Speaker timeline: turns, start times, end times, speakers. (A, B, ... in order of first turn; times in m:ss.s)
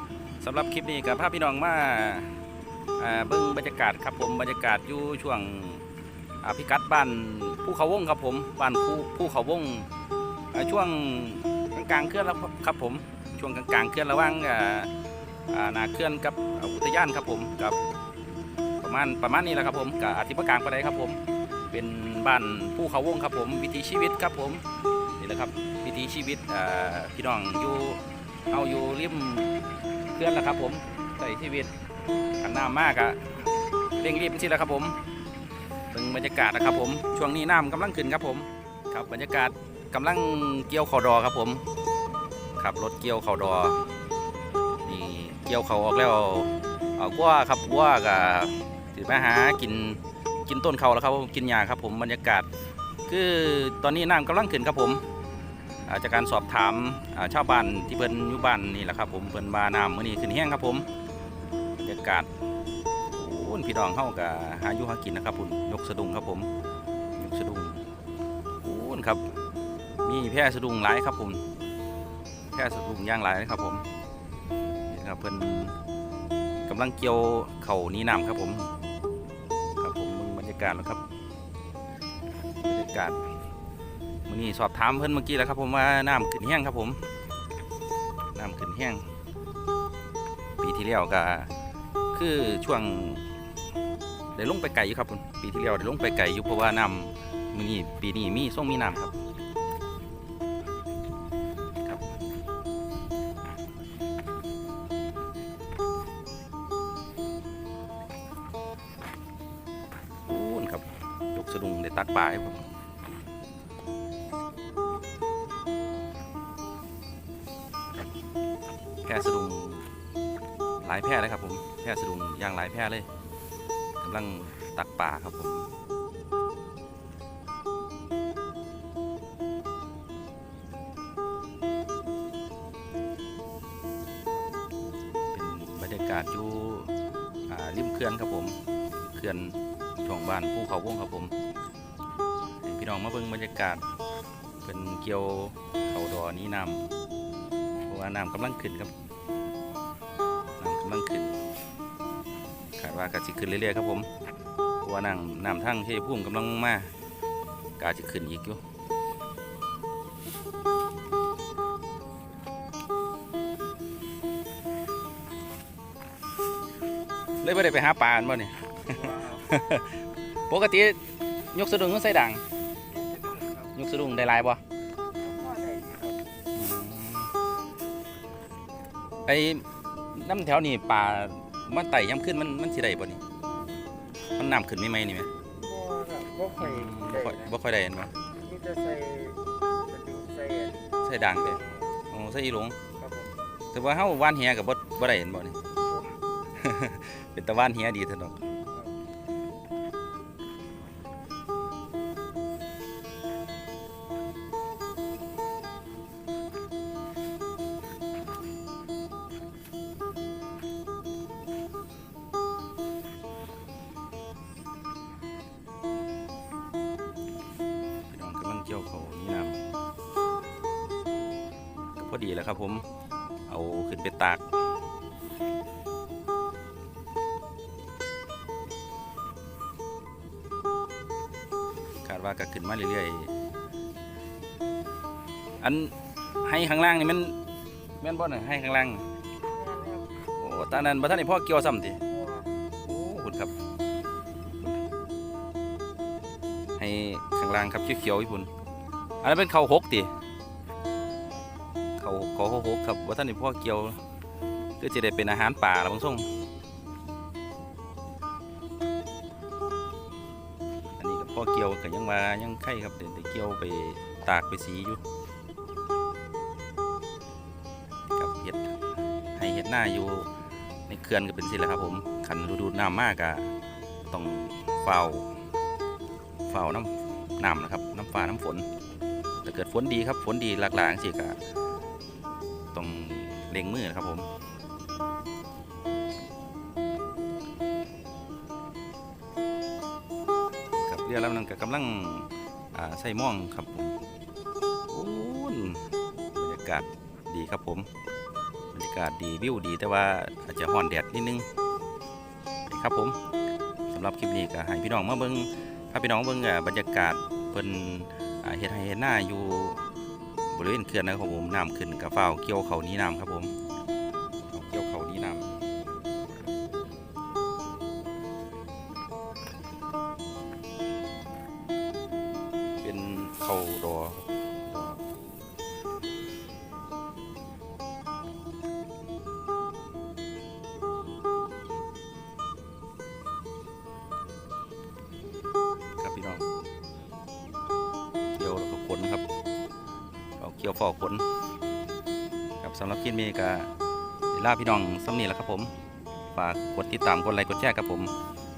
0:00.4-0:02.3 A
0:03.0-0:05.8 A
0:06.4-0:09.9 A
0:10.5-0:14.9 A
0:15.5-0:17.8 A
0:18.8-0:24.6 A
0:25.2-0:29.6 A
0:30.1-0:31.7 A
0:32.4-0:33.4 A
0:34.0-0:35.0 A
0:35.9-0:41.6 A
0:42.6-0:43.8 A
0:44.8-0:52.5 A
0:53.1-0:55.0 A
0:55.8-1:00.8 A
1:01.8-1:02.3 A
1:03.1-1:06.5 A
1:07.2-1:07.8 A
1:08.6-1:09.2 A
1:10.0-1:11.4 A
1:12.5-1:13.8 A
1:14.9-1:15.8 A
1:16.6-1:18.7 A
1:19.8-1:21.0 A
1:22.6-1:23.2 A
1:24.3-1:27.0 A
1:28.3-1:29.0 A
1:30.6-1:31.5 A
1:32.1-1:33.3 A
1:34.3-1:39.1 A
1:50.3-1:52.7 A
1:59.0-1:59.8 A
2:00.8-2:03.1 A
2:04.0-2:05.7 A
2:15.3-2:16.9 A
2:17.5-2:18.6 A
2:19.1-2:21.3 A
2:22.6-2:23.8 A
2:24.6-2:26.9 A
2:27.9-2:28.9 A
2:30.6-2:31.4 A
2:32.8-2:34.1 A
2:34.8-2:36.9 A
2:37.8-2:38.6 A
2:47.4-2:51.0 A
2:48.9-2:49.4 B
2:51.5-2:52.4 A
2:52.9-2:53.7 B
2:53.7-2:54.6 A
2:55.2-2:56.2 B
2:56.5-2:57.3 A
2:59.2-3:03.2 A
3:04.4-3:05.3 A
3:05.6-3:07.2 B
3:06.6-3:08.1 A
3:08.4-3:10.9 B
3:11.0-3:12.8 A
3:11.6-3:11.9 B
3:13.0-3:13.3 B
3:13.7-3:15.6 A
3:16.6-3:18.4 A
3:38.1-3:39.6 A
3:42.0-3:42.8 A
3:43.5-3:44.4 A
3:52.0-3:53.3 A
3:55.6-3:57.3 A
3:58.0-3:59.0 A
3:59.5-4:00.2 B
4:00.4-4:02.0 A
4:02.1-4:02.5 B
4:02.8-4:03.5 A
4:06.8-4:08.5 A
4:09.2-4:10.1 A
4:12.0-4:14.0 A
4:14.8-4:16.3 A
4:21.0-4:25.0 A
4:28.1-4:28.7 A
4:29.3-4:30.3 A
4:30.9-4:33.5 A
4:34.1-4:35.3 A
4:36.5-4:38.7 A
4:39.4-4:41.4 A
4:42.7-4:44.3 A
4:50.8-4:53.9 A
4:54.9-4:55.8 A
4:56.4-4:57.9 A
4:58.7-5:01.4 A
5:02.7-5:03.2 A
5:03.9-5:09.8 A
5:10.5-5:13.5 A
5:14.5-5:15.5 A
5:22.8-5:25.0 A
5:36.0-5:36.4 A
5:38.3-5:39.2 A
5:40.4-5:41.2 A
5:42.6-5:43.7 A
5:44.3-5:45.7 A
5:46.3-5:48.1 A